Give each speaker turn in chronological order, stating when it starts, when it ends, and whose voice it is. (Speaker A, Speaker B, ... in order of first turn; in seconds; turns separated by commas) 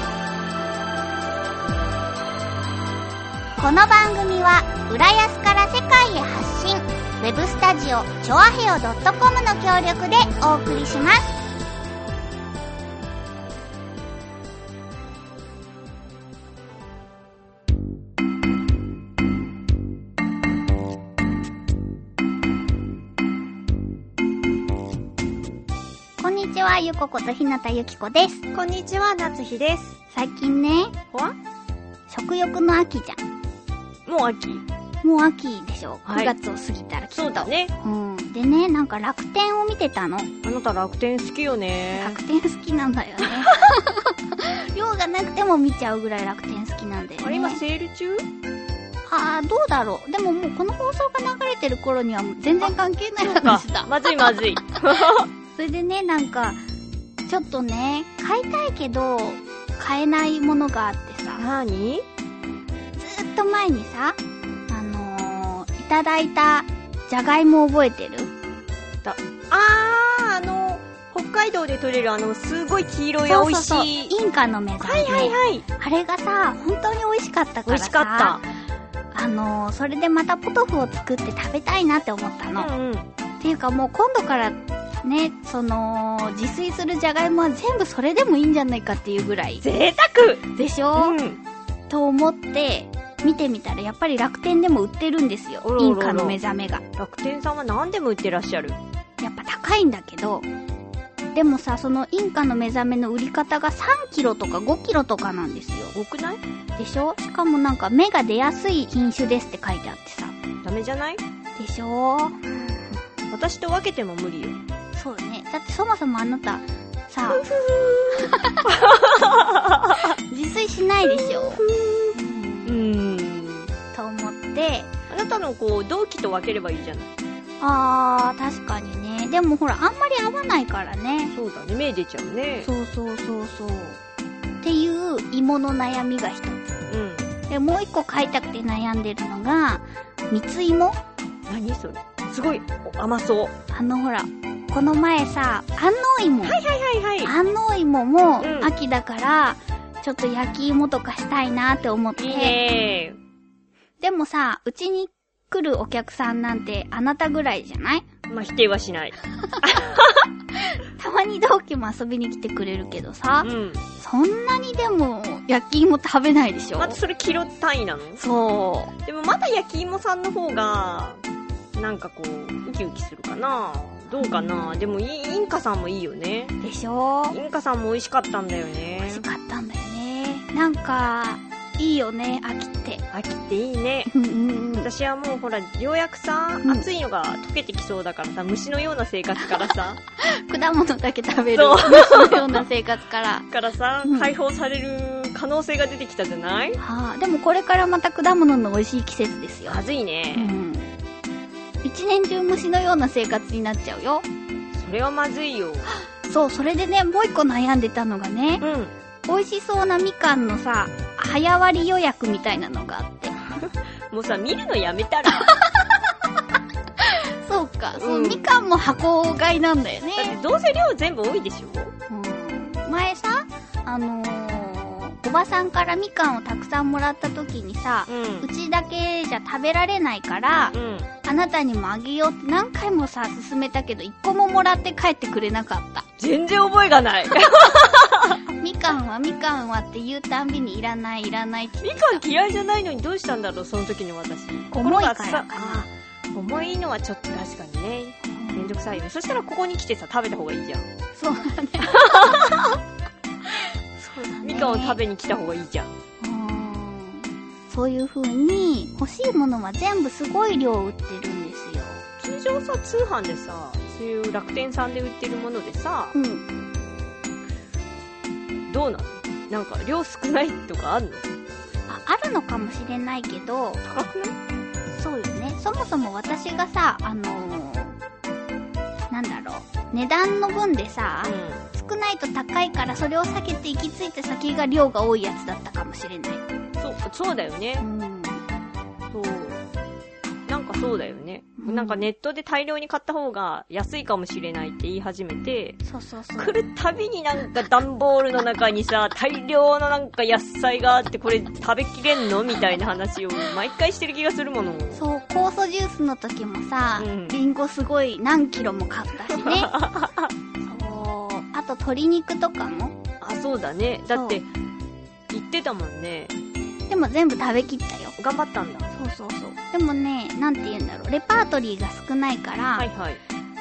Speaker A: 3.6-11.3, Speaker A: 26.2-28.4, Speaker B: 28.5-29.9, Speaker A: 30.1-30.9, Speaker A: 32.1-33.2, Speaker B: 34.0-34.6, Speaker A: 35.0-40.3, Speaker B: 36.0-36.3, Speaker B: 37.1-37.7, Speaker B: 40.4-42.2, Speaker A: 41.9-47.6, Speaker B: 47.2-48.3, Speaker A: 49.0-54.3, Speaker B: 52.6-55.3, Speaker A: 55.5-56.6, Speaker A: 57.3-61.4, Speaker B: 61.4-62.0, Speaker A: 63.0-68.3, Speaker B: 69.0-74.1, Speaker A: 73.2-78.5, Speaker B: 74.8-75.6, Speaker B: 77.7-78.4, Speaker A: 79.1-82.7, Speaker B: 82.5-83.1, Speaker A: 83.4-89.6, Speaker B: 89.6-90.4, Speaker A: 90.5-91.2, Speaker B: 91.0-91.4, Speaker A: 91.9-96.8, Speaker B: 95.6-96.4, Speaker B: 97.0-98.8, Speaker A: 99.2-100.5, Speaker A: 101.3-105.9, Speaker B: 105.9-106.4, Speaker A: 106.8-110.3, Speaker B: 110.6-111.2, Speaker A: 111.5-113.0, Speaker B: 113.3-114.6, Speaker A: 114.9-117.4, Speaker B: 117.3-120.2, Speaker A: 118.2-118.7, Speaker A: 120.2-123.2, Speaker B: 121.0-123.7, Speaker A: 123.9-124.9, Speaker B: 125.1-127.1, Speaker A: 127.6-131.3, Speaker B: 131.3-132.7, Speaker A: 132.6-134.0, Speaker A: 134.6-136.8, Speaker B: 136.9-137.3, Speaker A: 137.5-141.0, Speaker B: 141.5-143.5, Speaker A: 143.7-146.6, Speaker B: 146.4-147.3, Speaker A: 147.2-152.6, Speaker B: 148.4-148.7, Speaker B: 152.2-153.2, Speaker A: 154.0-158.0, Speaker B: 158.3-160.2, Speaker A: 160.6-167.0, Speaker B: 163.4-163.8, Speaker B: 166.8-168.2, Speaker A: 168.2-168.9, Speaker B: 169.0-171.2, Speaker B: 171.8-176.6, Speaker A: 174.2-174.8, Speaker A: 176.6-177.4, Speaker B: 177.3-179.2, Speaker A: 179.0-183.0, Speaker B: 183.1-184.1, Speaker A: 184.1-184.9, Speaker B: 184.8-190.0, Speaker A: 190.1-193.5, Speaker B: 191.5-192.6, Speaker B: 193.5-196.8, Speaker A: 194.0-194.3, Speaker A: 196.8-199.8, Speaker B: 199.7-200.5, Speaker A: 200.3-200.9, Speaker A: 201.8-204.2, Speaker B: 204.7-206.0, Speaker A: 206.0-208.6, Speaker B: 208.6-208.9, Speaker A: 209.3-213.6, Speaker B: 213.6-215.5, Speaker A: 215.3-216.0, Speaker A: 217.0-220.4, Speaker B: 217.9-218.5, Speaker B: 220.2-221.9, Speaker A: 222.1-236.1, Speaker B: 228.1-228.5, Speaker B: 230.7-231.1, Speaker B: 236.2-238.4, Speaker A: 238.6-242.2, Speaker B: 241.8-250.9, Speaker A: 244.7-245.8, Speaker A: 248.2-249.0, Speaker A: 251.1-252.8, Speaker B: 252.0-252.4, Speaker A: 253.5-255.0, Speaker B: 254.4-256.0, Speaker A: 256.2-262.0, Speaker B: 262.2-266.1, Speaker A: 266.1-266.5, Speaker B: 268.7-271.2, Speaker A: 271.9-273.8, Speaker B: 273.8-274.4, Speaker A: 274.9-278.0, Speaker A: 279.1-286.4, Speaker B: 281.2-281.6, Speaker B: 286.8-287.9, Speaker A: 287.8-288.4, Speaker B: 289.1-289.6, Speaker B: 290.5-295.8, Speaker A: 291.6-292.1, Speaker A: 295.8-296.6, Speaker B: 296.4-305.0, Speaker A: 304.9-309.7, Speaker B: 307.0-307.4, Speaker B: 309.4-310.3, Speaker A: 310.6-313.0, Speaker B: 313.2-314.5, Speaker A: 314.1-314.4, Speaker B: 315.3-316.3, Speaker A: 316.9-318.1, Speaker B: 318.2-318.9, Speaker A: 318.9-322.9, Speaker B: 322.8-323.2